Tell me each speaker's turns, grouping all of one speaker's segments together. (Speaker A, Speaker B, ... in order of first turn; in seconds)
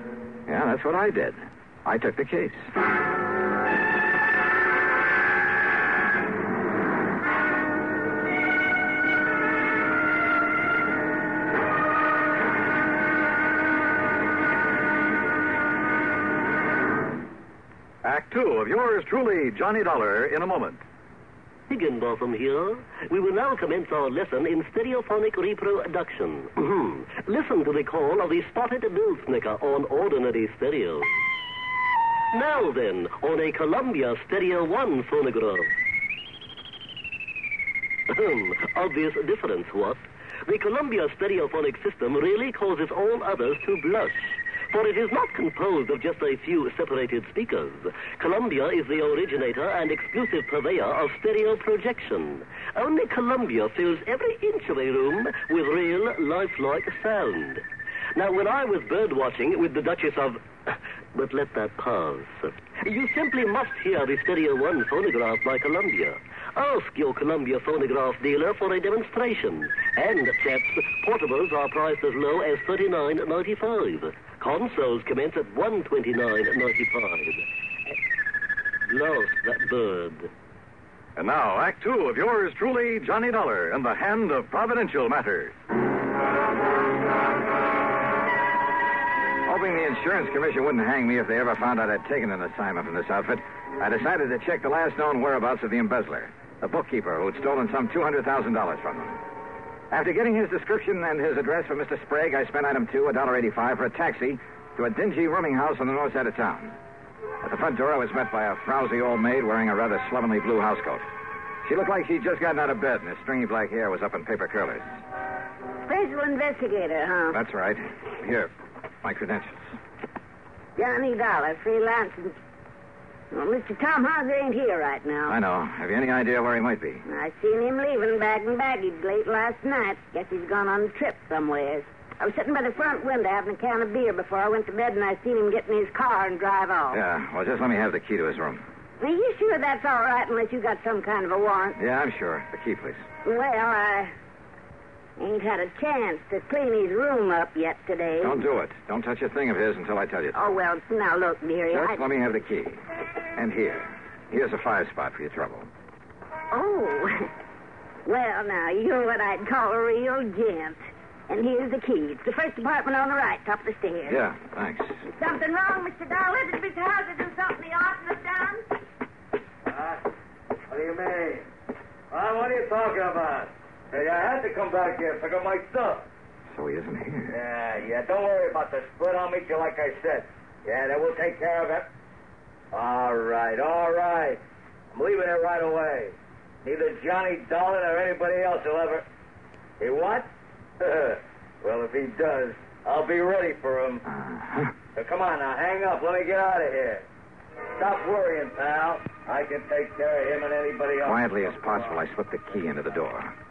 Speaker A: 0.5-2.7, 89.5-99.2, 99.9-106.8, 107.4-111.0, 111.6-114.9, 117.3-118.5, 119.0-119.8, 125.3-127.0, 136.9-138.6, 141.8-143.0, 148.2-150.5, 151.7-152.8, 153.3-155.7, 164.1-165.0, 176.5-177.4, 194.1-194.7, 201.0-203.3
Speaker B: 18.0-20.8, 81.2-85.5
Speaker C: 21.7-31.1, 32.3-35.7, 38.1-57.6, 58.1-77.9, 78.9-80.3
Speaker D: 115.9-117.4, 120.8-122.3, 123.3-125.3, 127.0-137.0, 139.0-141.8, 143.2-144.1, 145.2-148.4, 150.3-152.1, 156.5-157.3, 158.0-164.2, 165.0-168.7
Speaker E: 169.7-170.0, 170.7-171.5, 172.1-176.0, 177.3-181.9, 182.7-184.4, 184.9-189.0, 189.8-190.3, 190.8-194.0, 194.9-197.0, 197.8-201.8